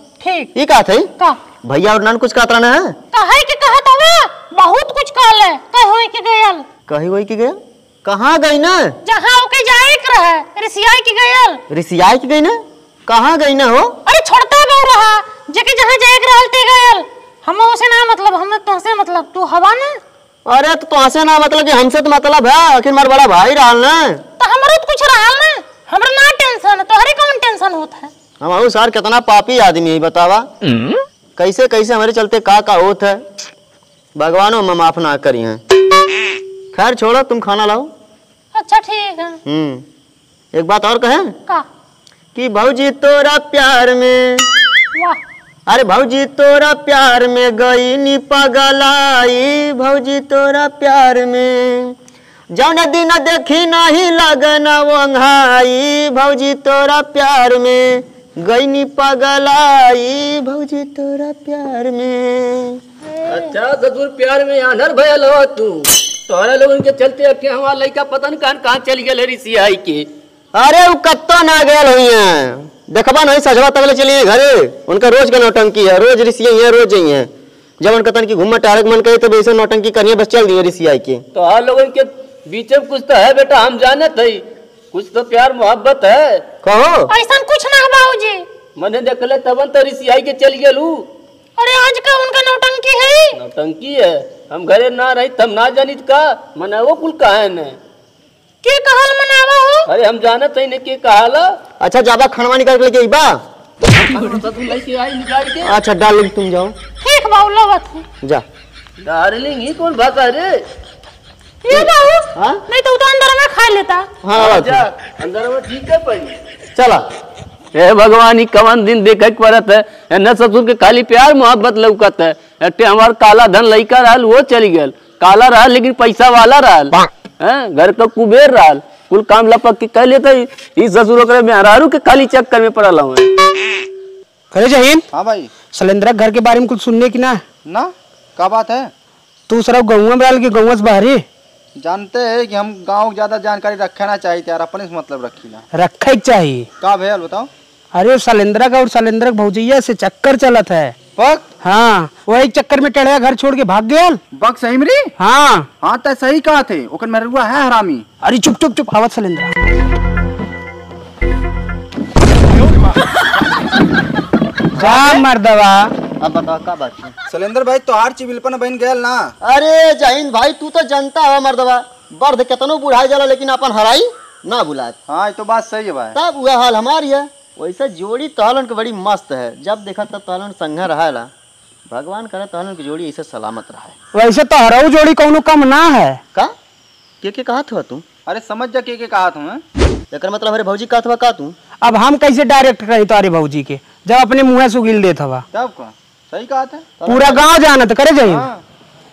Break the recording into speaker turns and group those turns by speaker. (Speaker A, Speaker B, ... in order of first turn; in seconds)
Speaker A: 0.2-0.5, 3.1-6.7, 9.0-11.6, 14.0-20.0, 24.4-28.1, 38.5-39.4, 44.9-45.2, 87.1-88.4, 91.6-93.4, 98.6-99.9, 107.0-108.0, 111.6-114.1
Speaker B: 0.5-1.1, 1.6-3.0, 6.9-8.9, 11.7-13.9, 20.4-24.2, 28.4-30.5, 31.4-33.2, 34.1-35.6, 36.7-37.9, 39.5-39.8, 40.5-41.3, 42.3-44.5, 45.7-51.9, 52.5-62.8, 70.5-77.3, 77.8-81.2, 86.6-87.1, 101.8-103.4, 105.6-106.7, 111.7-112.6, 114.2-114.9, 116.7-117.0, 164.8-165.2, 166.2-167.1, 169.4-174.9, 176.1-181.3, 181.9-183.9, 187.2-188.0, 190.1-191.5, 197.0-197.4
Speaker C: 30.6-31.0, 63.2-70.0, 81.3-86.4, 88.8-91.0, 93.3-97.8, 99.9-101.5, 103.8-105.8, 109.0-110.6, 114.3-116.3, 117.7-133.3
Speaker D: 134.5-135.0, 135.7-137.4, 139.5-141.2, 145.7-146.7, 147.9-150.9, 151.6-154.2, 155.2-155.7, 158.2-159.5, 164.8-165.9, 184.1-186.2, 191.8-195.4, 197.1-198.5
Speaker E: 135.1-135.5, 137.6-138.9, 141.8-145.6, 146.8-147.5, 151.1-151.4, 154.3-155.1, 155.8-158.0, 167.3-169.3, 175.1-176.2, 188.2-189.6, 195.5-196.9, 198.2-198.6